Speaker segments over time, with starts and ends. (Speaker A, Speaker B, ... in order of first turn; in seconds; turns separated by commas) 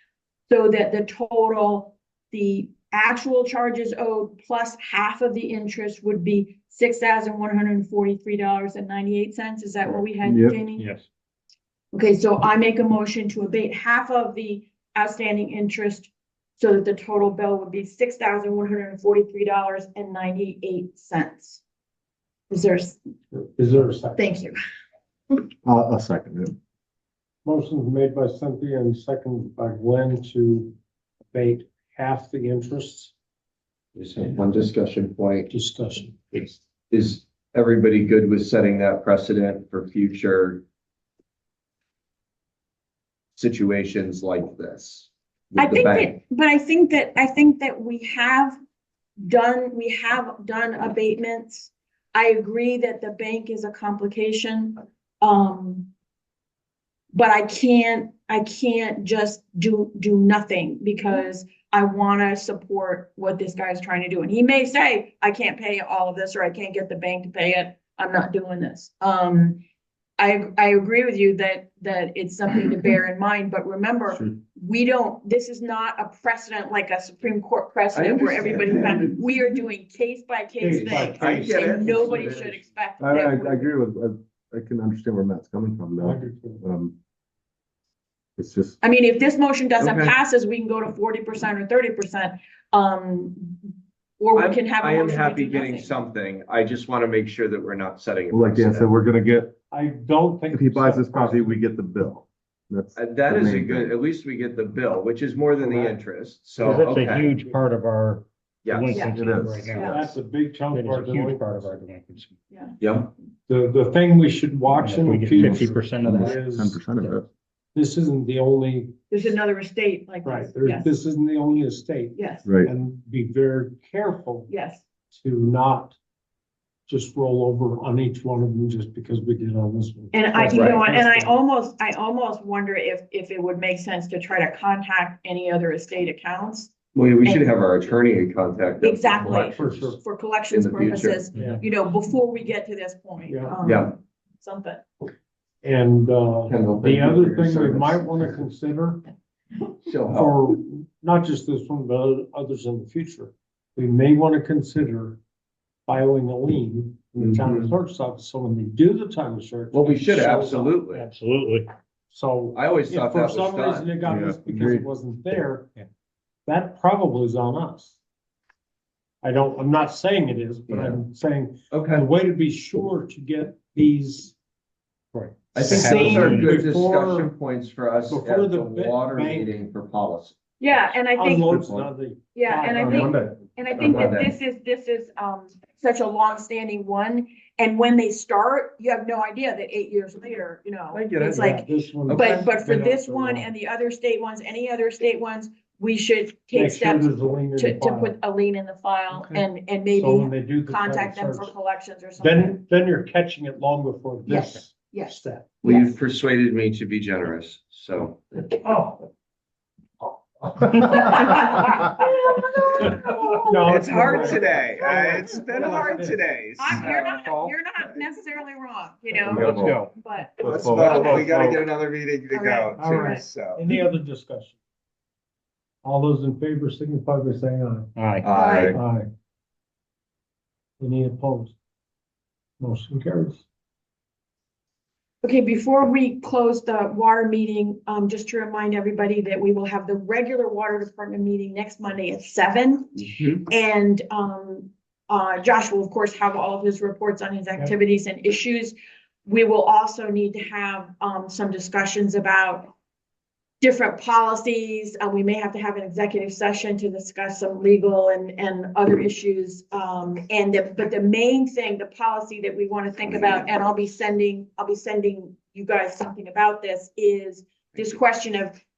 Speaker A: 0.5-10.9, Speaker B: 10.2-10.6, Speaker C: 10.8-11.1, Speaker A: 11.9-21.6, Speaker A: 22.5-23.0, Speaker D: 23.3-24.2, Speaker A: 24.2-24.6, Speaker B: 25.6-26.6, Speaker D: 27.4-30.8, Speaker D: 31.3-33.1, Speaker E: 34.0-35.5, Speaker D: 35.5-36.5, Speaker E: 36.9-40.6, Speaker E: 43.4-46.2, Speaker A: 45.6-48.6, Speaker A: 49.2-55.9, Speaker A: 57.1-69.6, Speaker A: 70.2-83.7, Speaker E: 77.9-79.3, Speaker D: 80.6-82.3, Speaker E: 80.6-82.6, Speaker B: 83.0-86.9, Speaker D: 86.0-86.6, Speaker B: 88.4-88.8, Speaker A: 88.8-96.0, Speaker E: 89.8-90.2, Speaker E: 94.3-98.9, Speaker B: 98.3-99.5, Speaker D: 99.7-101.6, Speaker B: 100.5-103.9, Speaker E: 103.0-107.3, Speaker D: 105.6-106.0, Speaker C: 106.6-110.2, Speaker E: 108.6-109.1, Speaker A: 108.9-109.2, Speaker B: 109.1-109.7, Speaker A: 109.7-110.1, Speaker D: 109.8-111.7, Speaker C: 110.7-112.3, Speaker A: 112.5-112.8, Speaker E: 112.8-113.1, Speaker D: 113.5-116.8, Speaker C: 114.7-117.1, Speaker B: 115.4-117.3, Speaker D: 117.8-119.0, Speaker A: 119.1-120.9, Speaker D: 120.2-124.5, Speaker A: 122.2-122.5, Speaker B: 122.5-122.7, Speaker A: 124.5-124.8, Speaker D: 125.1-126.0, Speaker D: 126.9-131.4, Speaker A: 130.1-136.7, Speaker E: 130.5-130.8, Speaker E: 136.9-139.9, Speaker A: 138.8-144.8, Speaker D: 139.3-140.0, Speaker E: 140.5-141.2, Speaker C: 141.3-141.6, Speaker D: 141.3-141.6, Speaker D: 143.3-143.6, Speaker E: 143.6-143.9, Speaker D: 145.6-149.0, Speaker E: 146.5-148.2, Speaker E: 149.8-150.4, Speaker D: 150.1-155.2, Speaker D: 155.9-160.9, Speaker E: 157.2-157.8, Speaker E: 159.7-161.1, Speaker C: 160.9-161.7, Speaker D: 162.1-165.7, Speaker E: 162.5-163.9, Speaker B: 164.1-164.9, Speaker D: 166.5-168.0, Speaker D: 169.2-174.3, Speaker E: 170.7-171.0, Speaker E: 171.7-172.1, Speaker C: 175.2-176.6, Speaker D: 175.2-177.3, Speaker E: 175.5-180.4, Speaker D: 178.1-179.5, Speaker A: 180.6-181.5, Speaker D: 181.2-183.1, Speaker B: 181.5-181.9, Speaker A: 182.3-202.6, Speaker B: 182.7-183.4, Speaker E: 183.8-184.3, Speaker E: 190.9-192.5, Speaker D: 191.2-193.5, Speaker D: 196.5-198.2, Speaker D: 199.1-201.5, Speaker D: 202.2-205.5, Speaker A: 204.3-205.9, Speaker E: 205.6-208.4, Speaker D: 208.6-209.0, Speaker A: 210.9-214.5, Speaker D: 213.3-217.6, Speaker E: 213.7-217.1, Speaker A: 216.6-221.2, Speaker B: 219.2-219.8, Speaker C: 219.3-219.9, Speaker B: 220.4-221.6, Speaker E: 220.4-223.6, Speaker C: 220.5-221.6, Speaker A: 222.3-223.2, Speaker D: 222.8-224.6, Speaker D: 225.8-227.9, Speaker C: 228.0-228.3, Speaker E: 228.2-228.8, Speaker A: 228.3-228.8, Speaker D: 228.7-229.1, Speaker D: 230.8-231.6, Speaker D: 232.6-233.4, Speaker A: 235.2-248.8, Speaker E: 243.0-243.4, Speaker A: 249.3-252.7, Speaker A: 253.6-268.6